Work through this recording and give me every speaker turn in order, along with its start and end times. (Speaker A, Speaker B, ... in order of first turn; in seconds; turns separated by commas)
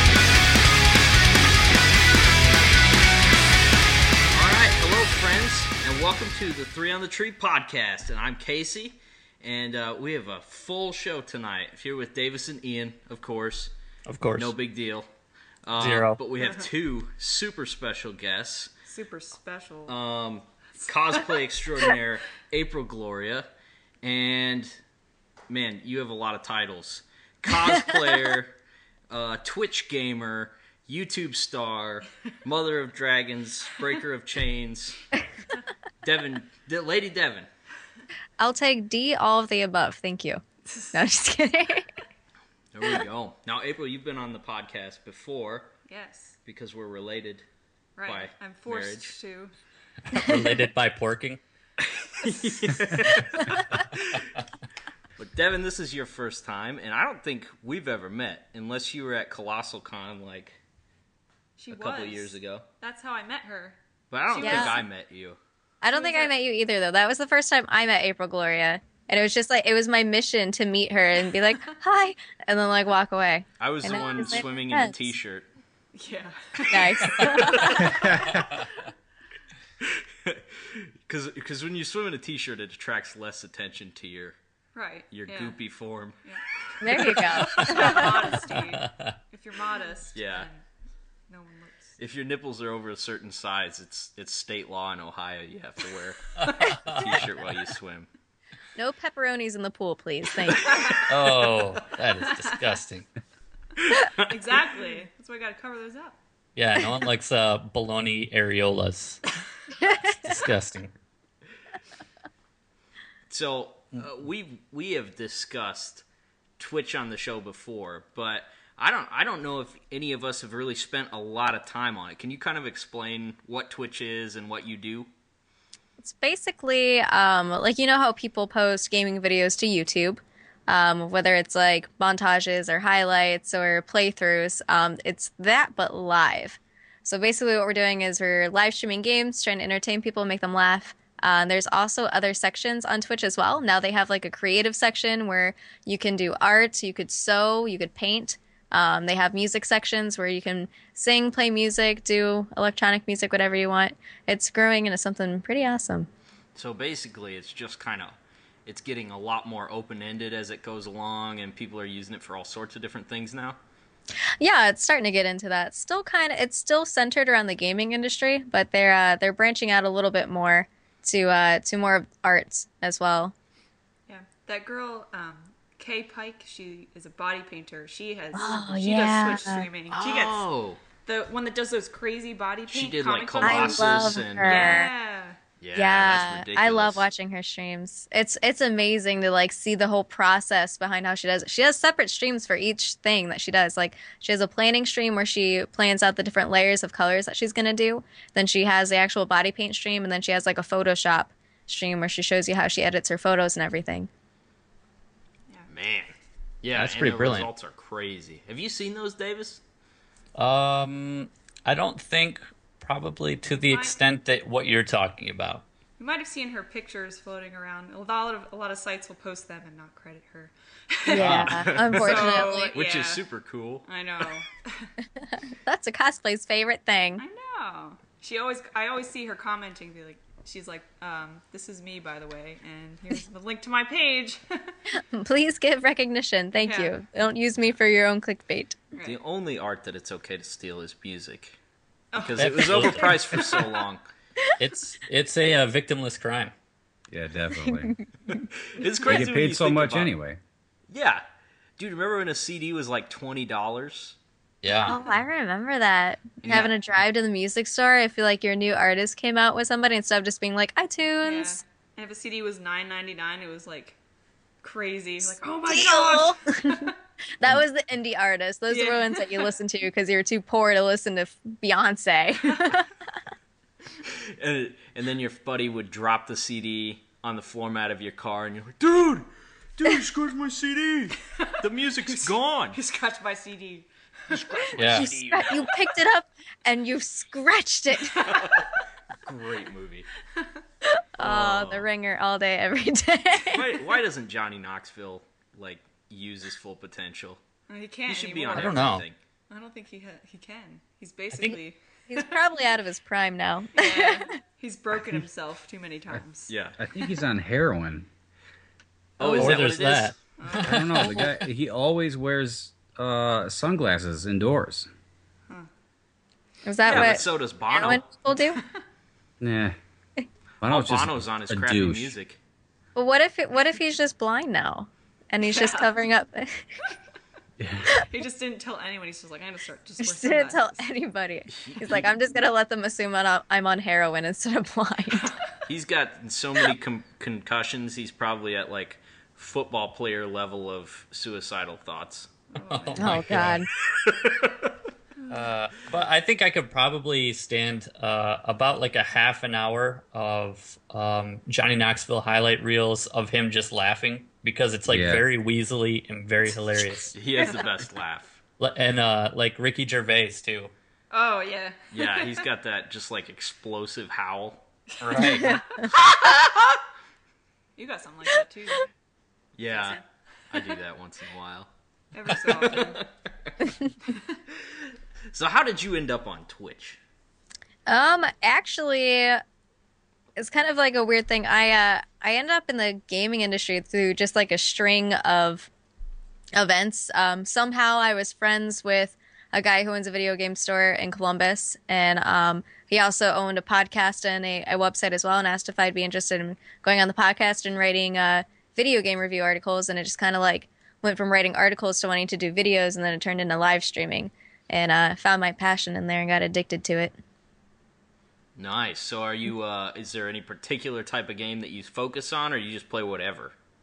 Speaker A: 4.3-13.7, Speaker B: 14.1-14.5, Speaker A: 14.3-15.1, Speaker A: 15.6-18.7, Speaker B: 15.8-16.2, Speaker C: 16.4-16.6, Speaker C: 18.9-19.9, Speaker A: 19.9-23.5, Speaker C: 21.1-21.4, Speaker A: 24.0-24.7, Speaker A: 25.5-28.6, Speaker A: 29.1-35.1, Speaker A: 36.0-37.5, Speaker D: 38.4-41.9, Speaker A: 42.7-45.7, Speaker C: 45.9-46.4, Speaker A: 46.5-47.4, Speaker C: 48.0-49.5, Speaker A: 48.0-49.1, Speaker B: 50.1-51.4, Speaker D: 50.1-50.5, Speaker A: 51.8-54.2, Speaker A: 55.2-60.6, Speaker C: 61.6-64.9, Speaker A: 61.7-62.6, Speaker A: 64.1-65.4, Speaker D: 64.4-64.8, Speaker D: 65.8-74.9, Speaker C: 65.9-66.3, Speaker A: 73.6-75.5, Speaker C: 73.9-74.5, Speaker C: 75.9-78.2, Speaker D: 76.7-78.0, Speaker A: 77.1-78.4, Speaker B: 78.1-78.7, Speaker A: 79.8-84.3, Speaker C: 84.7-85.6, Speaker A: 85.1-86.2, Speaker C: 86.2-90.6, Speaker A: 86.8-88.1, Speaker D: 86.8-88.1, Speaker B: 87.3-89.2, Speaker A: 90.1-90.5, Speaker C: 91.3-92.0, Speaker A: 92.0-98.1, Speaker B: 96.4-97.3, Speaker D: 98.8-100.8, Speaker A: 100.5-101.0, Speaker B: 101.1-103.1, Speaker A: 103.8-104.6, Speaker C: 104.2-106.2, Speaker B: 106.5-109.2, Speaker D: 109.8-110.1, Speaker B: 110.0-110.9, Speaker A: 113.3-116.0, Speaker A: 116.6-125.1, Speaker D: 126.0-156.1, Speaker A: 156.5-158.1, Speaker A: 158.7-163.6, Speaker D: 164.4-173.3, Speaker C: 174.1-180.5, Speaker D: 178.3-179.7, Speaker A: 179.9-180.8, Speaker C: 181.0-185.4, Speaker A: 182.7-184.9, Speaker D: 183.4-184.9, Speaker A: 185.6-187.0, Speaker D: 185.7-204.1, Speaker A: 205.7-209.6, Speaker B: 206.7-207.5, Speaker B: 210.3-215.6, Speaker C: 213.5-214.0, Speaker C: 216.0-221.3, Speaker D: 221.1-222.7, Speaker B: 221.2-221.8, Speaker A: 221.3-224.3, Speaker C: 221.9-223.2, Speaker C: 223.8-224.9, Speaker D: 225.7-227.2, Speaker C: 227.2-234.7, Speaker D: 234.9-238.8, Speaker C: 236.6-236.9, Speaker C: 238.9-239.2, Speaker A: 239.0-241.6, Speaker C: 242.1-243.1, Speaker A: 242.2-244.0, Speaker B: 242.4-243.2, Speaker B: 244.6-246.5, Speaker E: 247.1-247.9, Speaker A: 248.6-250.1, Speaker E: 249.0-250.4, Speaker A: 250.9-251.2, Speaker A: 251.8-254.2, Speaker B: 254.6-255.0, Speaker D: 254.9-261.6, Speaker A: 256.4-256.7, Speaker C: 261.2-264.0, Speaker C: 264.6-266.9, Speaker D: 265.7-266.9, Speaker D: 267.4-272.9, Speaker C: 268.7-269.5, Speaker C: 272.4-272.7, Speaker A: 274.1-282.8, Speaker C: 282.1-284.6, Speaker A: 284.3-285.7, Speaker B: 284.8-285.1, Speaker D: 284.9-288.4, Speaker A: 288.2-288.7, Speaker A: 289.2-290.1, Speaker D: 290.8-293.7, Speaker A: 291.2-291.9, Speaker A: 293.4-297.4, Speaker C: 297.7-298.9, Speaker A: 298.1-299.1, Speaker B: 298.5-299.1, Speaker C: 299.5-302.3, Speaker B: 301.3-301.6, Speaker D: 302.1-304.3, Speaker C: 303.7-306.5, Speaker A: 306.5-306.8, Speaker E: 306.8-308.1, Speaker A: 309.2-310.1, Speaker B: 309.2-311.3, Speaker C: 310.4-311.0, Speaker E: 310.6-314.9, Speaker D: 316.6-318.6, Speaker A: 316.9-318.0, Speaker C: 317.8-318.8, Speaker E: 319.4-319.7, Speaker E: 320.6-322.1, Speaker A: 320.6-322.4, Speaker D: 322.9-326.6, Speaker C: 325.4-325.9, Speaker E: 327.6-327.9, Speaker C: 327.9-330.8, Speaker D: 330.0-335.3, Speaker A: 331.5-332.0, Speaker A: 335.6-342.3, Speaker C: 342.5-343.2, Speaker B: 342.7-343.6, Speaker D: 343.0-343.7, Speaker A: 343.9-344.7, Speaker B: 345.3-357.1, Speaker E: 354.9-355.2, Speaker A: 357.1-358.4, Speaker B: 358.6-360.7, Speaker C: 361.1-362.4, Speaker A: 361.9-364.6, Speaker C: 365.0-365.6, Speaker B: 365.0-365.7, Speaker A: 365.9-366.8, Speaker C: 367.8-368.9, Speaker A: 369.6-370.0, Speaker C: 369.7-370.7, Speaker A: 370.5-371.7, Speaker C: 372.1-373.0, Speaker A: 372.2-373.5, Speaker A: 375.3-377.0, Speaker D: 377.9-379.4, Speaker D: 380.4-385.7, Speaker D: 386.5-407.1, Speaker A: 408.6-413.5